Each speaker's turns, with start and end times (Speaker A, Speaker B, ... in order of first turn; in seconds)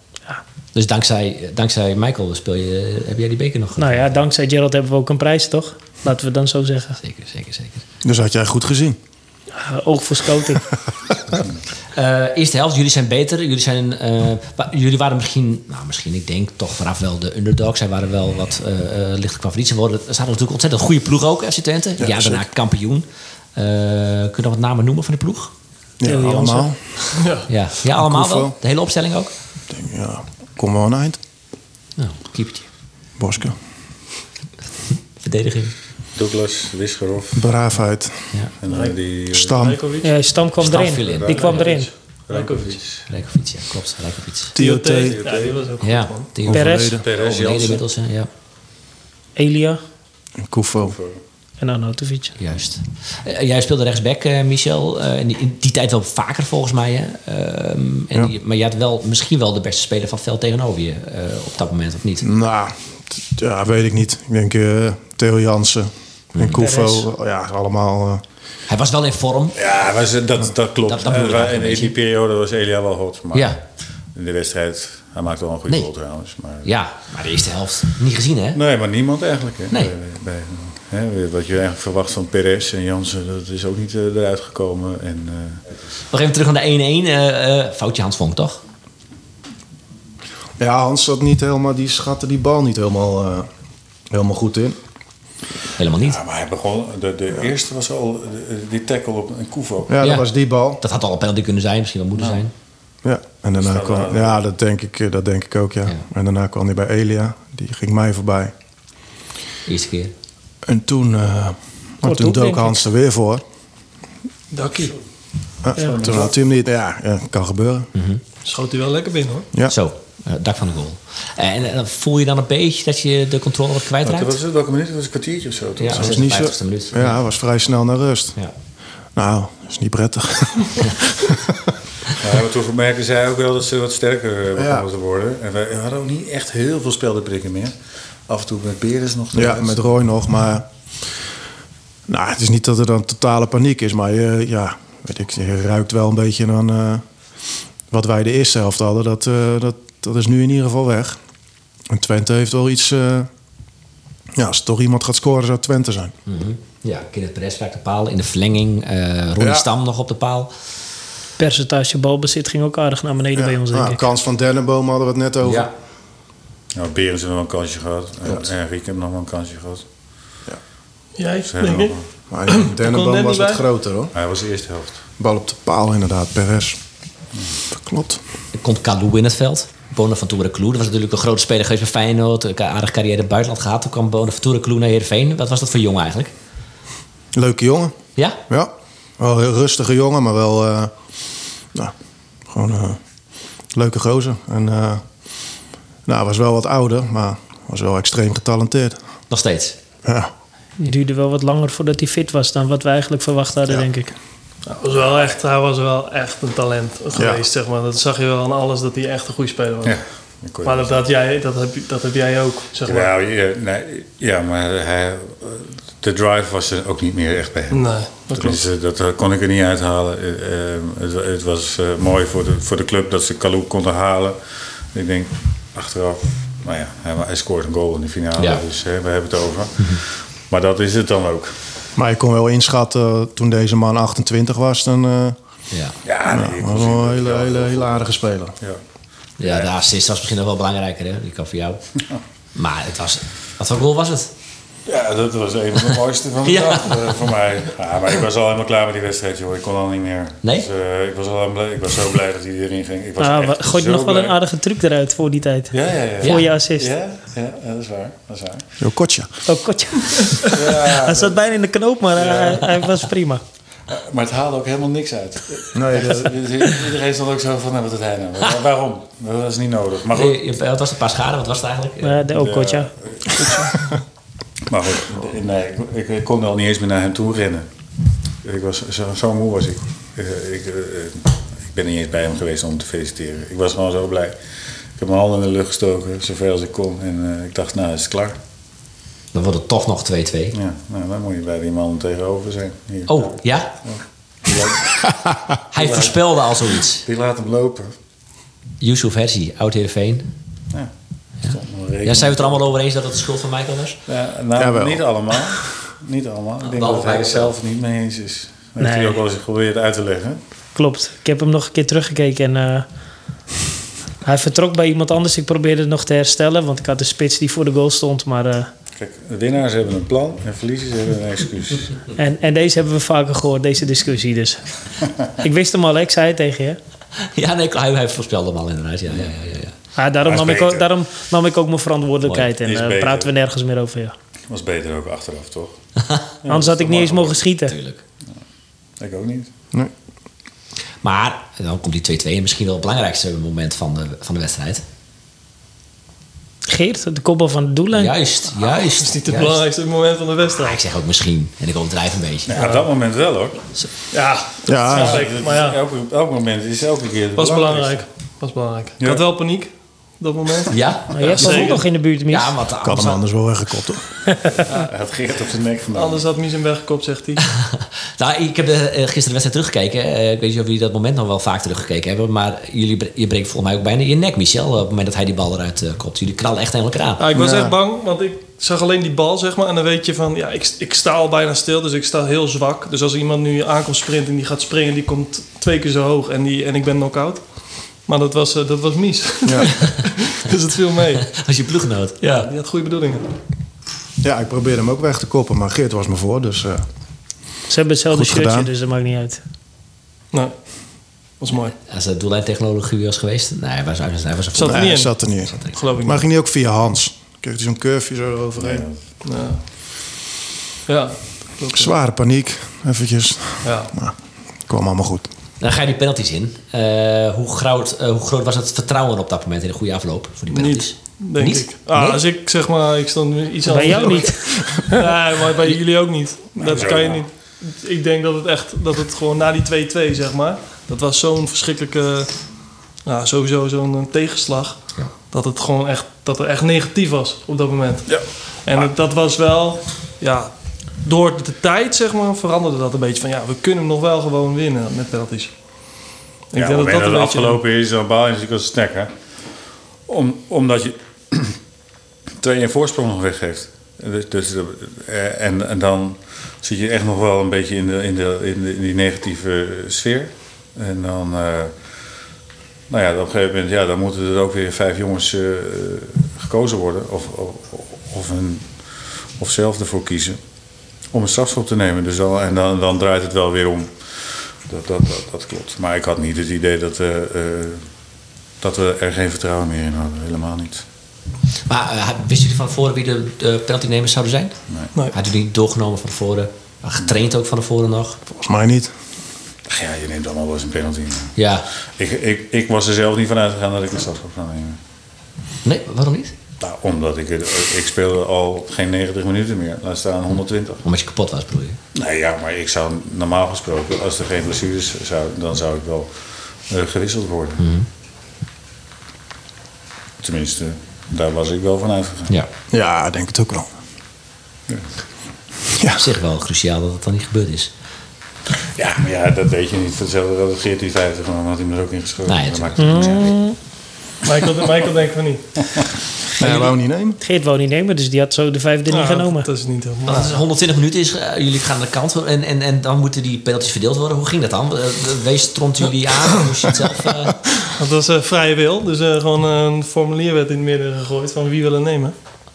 Speaker A: 0.7-4.1, 7.0-7.8, 11.9-25.5, 26.2-26.4, 27.5-29.3, 32.0-32.7, 35.2-35.7, 40.6-41.6, 43.1-44.5, 45.8-48.3, 52.4-62.2, 66.3-66.7, 68.7-69.6, 70.8-71.9, 73.3-73.6, 76.6-78.6, 86.1-88.6, 95.8-96.2, 100.0-102.5, 109.7-110.1, 117.9-118.2, 119.7-124.3, 125.8-127.2, 156.2-160.5, 165.4-165.7, 178.5-186.3, 199.3-199.8, 228.4-228.6, 239.4-241.8, 242.5-244.3, 246.4-247.3, 256.2-256.5, 270.1-272.2, 289.3-290.6, 293.1-293.8, 295.7-297.0, 298.8-300.3, 301.4-304.0, 306.6-307.5, 327.2-329.7, 332.2-332.5, 337.6-338.0, 341.0-344.8, 347.9-349.6, 350.6-352.6, 360.7-363.2, 367.6-377.2, 391.2-392.5, 401.9-405.7, 415.6-422.2, 481.7-488.2, 491.4-491.7, 495.6-496.3, 500.8-501.8, 507.6-507.9, 516.0-517.7, 522.2-523.3, 530.1-537.4
Speaker B: 3.8-7.0, 9.5-10.7, 26.0-26.7, 40.0-41.9, 46.5-46.9, 49.4-49.8, 51.6-52.4, 66.5-67.0, 112.0-112.8, 161.4-164.0, 200.8-204.1, 253.2-256.9, 259.5-263.4, 272.0-272.9, 308.8-309.2, 310.7-312.9, 314.2-318.7, 322.2-324.6, 325.2-326.8, 329.9-334.1, 336.5-337.8, 346.7-348.1, 361.1-362.5, 397.7-399.4, 423.7-425.0, 522.8-523.5, 527.2-529.5
Speaker C: 8.0-9.0, 22.0-22.4, 26.0-26.8, 27.8-28.6, 29.7-31.2, 33.2-33.5, 37.3-38.3, 39.3-39.8, 44.5-45.2, 46.5-47.0, 50.4-51.0, 62.2-68.2, 90.6-93.5, 94.1-94.8, 99.9-100.8, 103.0-108.5, 110.7-113.4, 115.6-117.9, 125.9-128.4, 129.2-131.7, 134.6-134.8, 139.3-140.7, 142.1-147.0, 147.9-151.2, 151.9-153.3, 154.3-156.1, 159.4-159.7, 163.3-165.7, 172.3-174.1, 175.2-176.8, 177.8-178.2, 187.3-187.9, 188.5-190.9, 192.5-193.0, 193.7-195.0, 196.1-199.0, 200.0-200.3, 207.1-207.4, 232.0-235.4, 236.3-238.5, 258.8-259.3, 265.7-266.3, 304.6-305.5, 354.6-355.2, 362.8-364.0, 377.3-377.8, 389.4-389.7, 394.2-396.8, 398.1-398.7, 404.6-408.9, 411.7-414.1, 414.7-415.3, 488.3-488.9, 512.7-513.7, 515.8-516.0, 526.4-527.2
Speaker D: 27.1-27.5, 38.6-40.1, 41.3-42.8, 44.5-46.3, 114.5-114.9, 118.4-119.5, 171.2-172.0, 172.5-173.6, 204.6-210.0, 210.6-213.1, 217.7-218.6, 273.4-273.7, 349.0-350.8, 352.5-352.9, 354.1-355.8, 357.4-360.8, 361.3-361.8, 365.9-367.4, 377.2-391.3, 392.2-393.3, 400.3-400.6, 401.4-401.7, 404.5-406.2, 409.2-409.6, 410.9-411.9, 413.6-413.9, 420.5-432.4, 433.0-445.5, 446.5-447.6, 524.2-525.5, 528.9-530.4, 537.6-542.1
Speaker E: 36.1-37.4, 38.6-39.6, 41.1-41.6, 42.3-43.1, 45.0-45.6, 47.0-47.8, 50.8-51.2, 69.5-73.5, 74.1-76.7, 78.5-85.6, 96.0-100.0, 103.6-104.4, 115.8-116.3, 124.0-126.3, 132.2-137.7, 138.3-139.8, 166.7-169.8, 171.4-172.1, 174.1-175.0, 209.8-211.0, 212.8-224.4, 224.9-231.5, 236.0-238.8, 239.4-239.7, 244.8-254.3, 255.7-258.6, 260.5-261.4, 262.1-262.9, 263.9-270.4, 272.3-273.6, 274.7-277.7, 278.4-284.4, 284.9-288.4, 290.5-295.0, 295.7-296.5, 297.0-297.9, 301.4-302.6, 304.1-310.4, 319.0-322.0, 330.2-330.9, 332.6-333.3, 334.5-335.8, 336.4-337.4, 339.0-339.5, 352.5-353.6, 354.9-358.0, 359.0-359.2, 364.5-366.2, 408.6-409.0, 426.6-427.2, 446.5-449.1, 450.1-451.5, 452.4-461.7, 462.9-470.4, 471.1-477.8, 478.6-480.8, 484.7-484.9, 489.7-494.8, 496.6-500.8, 501.9-506.1, 506.7-507.6, 510.2-512.3, 518.8-523.4